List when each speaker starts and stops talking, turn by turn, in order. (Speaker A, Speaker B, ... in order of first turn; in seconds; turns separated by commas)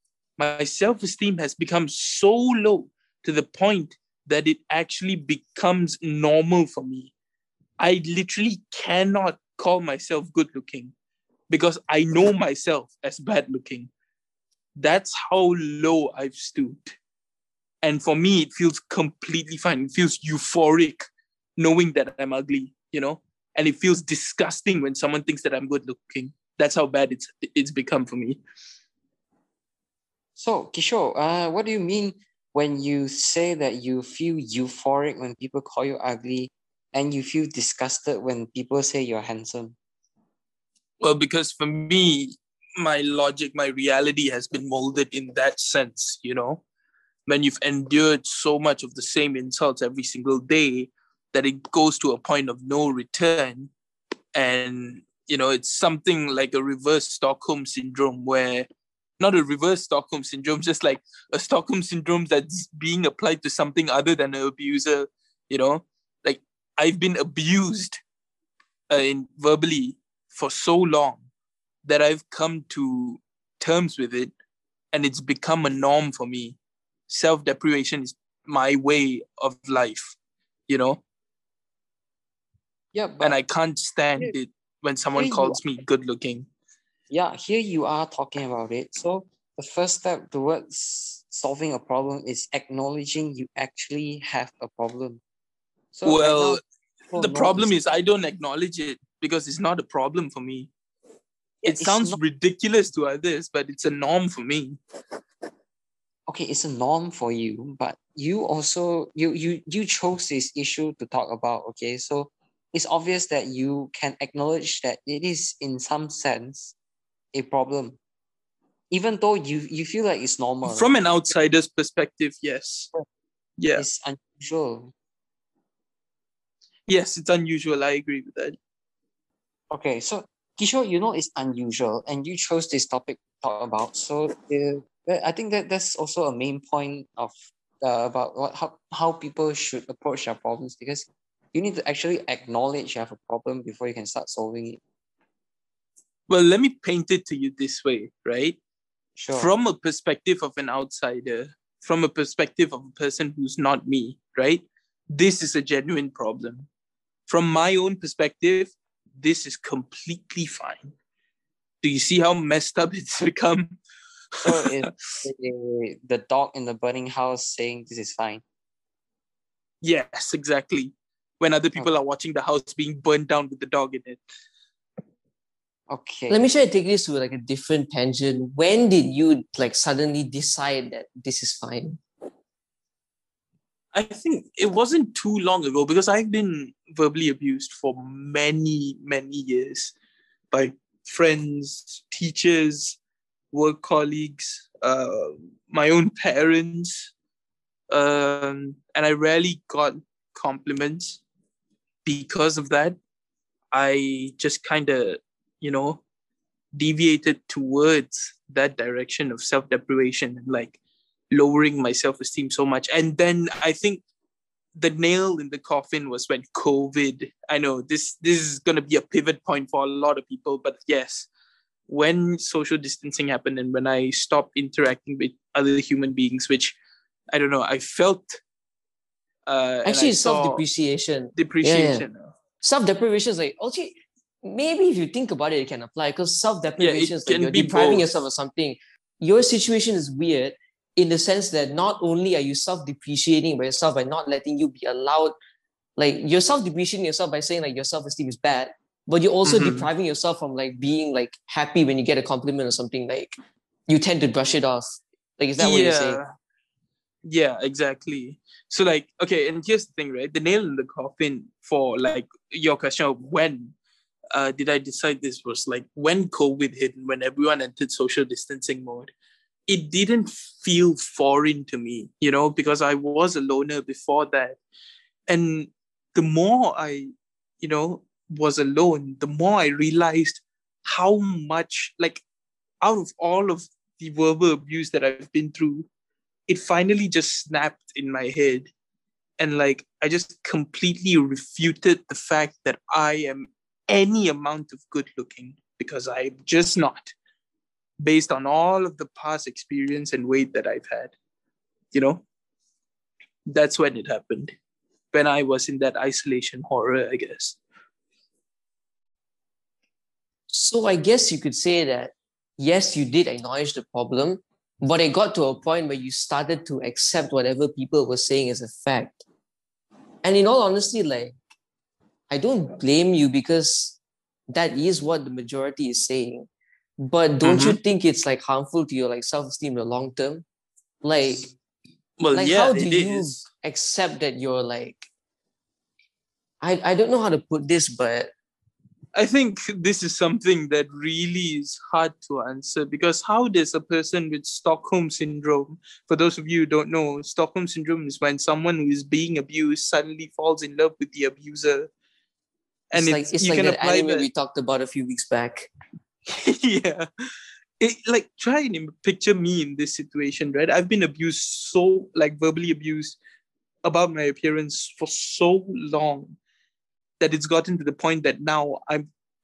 Speaker A: 0.4-7.1, Speaker A: 7.8-10.9, Speaker A: 11.5-13.9, Speaker A: 14.8-16.9, Speaker A: 17.8-28.4, Speaker B: 30.4-39.8, Speaker A: 41.0-46.6, Speaker A: 47.3-53.7, Speaker A: 54.3-58.7, Speaker A: 59.2-68.0, Speaker A: 68.9-71.3, Speaker A: 71.8-74.3, Speaker A: 74.9-76.6, Speaker A: 77.1-80.2, Speaker A: 80.7-81.0, Speaker B: 82.9-83.4, Speaker A: 83.2-86.5, Speaker B: 85.1-85.6, Speaker B: 87.1-95.2, Speaker B: 95.9-97.7, Speaker A: 96.0-96.6, Speaker A: 97.2-100.7, Speaker B: 101.6-102.2, Speaker A: 101.6-104.8, Speaker B: 106.3-116.7, Speaker B: 117.3-118.0, Speaker B: 118.9-120.9, Speaker A: 120.6-122.9, Speaker A: 123.6-123.8, Speaker B: 123.7-124.9, Speaker A: 126.9-128.6, Speaker B: 129.7-144.8, Speaker A: 146.3-148.6, Speaker B: 149.2-149.5, Speaker A: 149.3-156.7, Speaker A: 157.3-160.9, Speaker A: 161.8-163.8, Speaker A: 164.3-164.9, Speaker B: 164.4-168.4, Speaker A: 169.8-174.2, Speaker B: 175.9-176.5, Speaker C: 176.3-182.0, Speaker A: 183.9-189.9, Speaker A: 190.5-193.0, Speaker A: 193.5-197.1, Speaker A: 197.9-201.2, Speaker A: 202.0-203.0, Speaker A: 203.7-206.0, Speaker A: 206.7-210.8, Speaker A: 211.3-214.0, Speaker A: 214.8-221.3, Speaker A: 221.9-226.7, Speaker A: 227.3-228.4, Speaker A: 229.5-230.6, Speaker C: 229.8-232.1, Speaker A: 231.3-232.3, Speaker C: 232.6-245.3, Speaker A: 236.8-238.1, Speaker C: 246.0-253.3, Speaker A: 249.4-249.9, Speaker C: 253.9-256.2, Speaker A: 255.6-256.3, Speaker A: 257.2-263.7, Speaker A: 264.3-269.1, Speaker A: 269.7-274.6, Speaker A: 275.3-277.1, Speaker A: 277.6-282.2, Speaker A: 282.8-285.9, Speaker A: 286.5-288.7, Speaker A: 289.4-297.1, Speaker A: 298.0-301.1, Speaker A: 301.9-302.2, Speaker A: 303.5-304.5, Speaker A: 305.1-307.6, Speaker C: 310.5-319.2, Speaker C: 320.2-321.4, Speaker C: 322.3-324.0, Speaker C: 324.5-330.4, Speaker A: 327.4-327.8, Speaker C: 331.0-331.5, Speaker A: 332.2-333.4, Speaker C: 332.3-335.1, Speaker C: 336.6-338.3, Speaker A: 339.1-351.9, Speaker A: 352.9-354.3, Speaker C: 352.9-355.7, Speaker A: 356.3-357.1, Speaker A: 357.8-363.2, Speaker A: 363.8-366.4, Speaker A: 367.2-369.1